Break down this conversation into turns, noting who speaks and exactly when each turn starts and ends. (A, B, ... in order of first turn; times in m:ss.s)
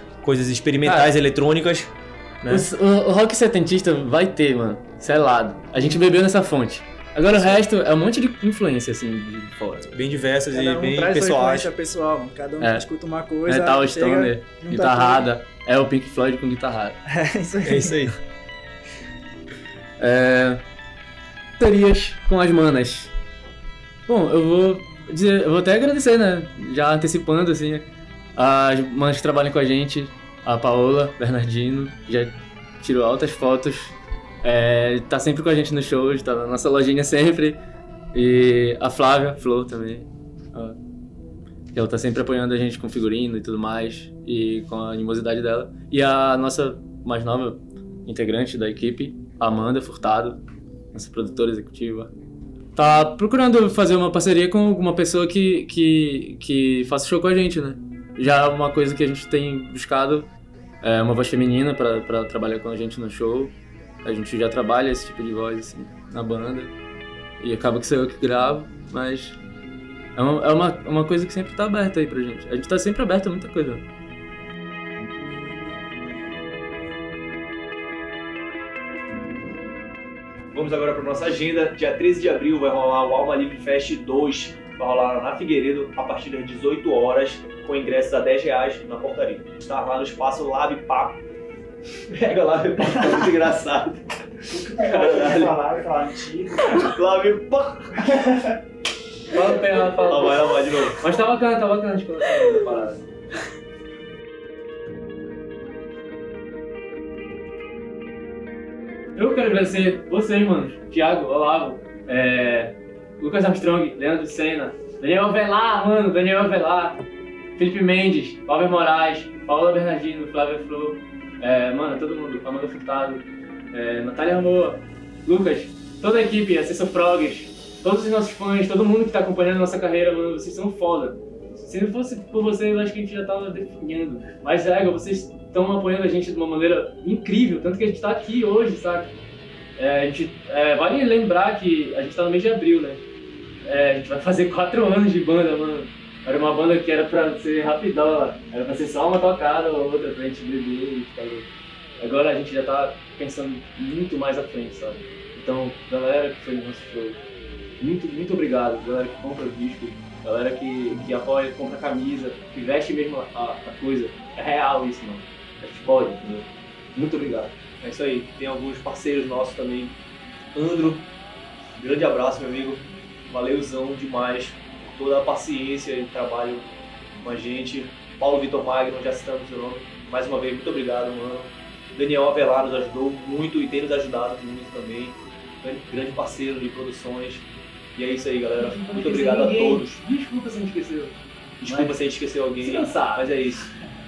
0:00.2-0:02.7 A
0:00.8-0:01.1 B
0:02.5-0:09.9 B
0:07.3-0:07.6 A
0:09.9-0:11.7 A
0:10.5-0:15.3 C
0:12.6-0:12.9 B
0:13.5-0:17.0 B
0:17.1-0:18.1 C
0:17.6-0:18.1 A
0:20.0-0:20.6 B
0:21.6-0:23.1 B
0:24.1-0:37.6 B
0:38.1-0:40.8 B
0:41.7-0:50.4 B
0:50.9-0:52.1 B
0:52.8-1:00.3 B
1:00.8-1:06.7 B
1:07.4-1:09.4 B
1:10.2-1:13.8 B
1:20.5-1:31.2 A
1:32.1-1:34.0 A
1:34.5-1:35.7 A
1:34.5-1:36.8 C
1:36.3-1:38.5 A
1:39.3-1:43.0 B
1:40.1-1:41.1 A
1:42.5-1:42.9 A
1:49.2-1:57.0 B
1:57.6-2:19.1 B
2:19.8-2:23.0 B
2:23.6-2:37.2 B
2:37.8-2:47.6 B
2:47.8-2:50.0 A
2:50.5-2:51.1 A
2:51.8-3:10.0 A
3:08.6-3:12.0 B
3:11.6-3:13.7 A
3:12.6-3:13.5 B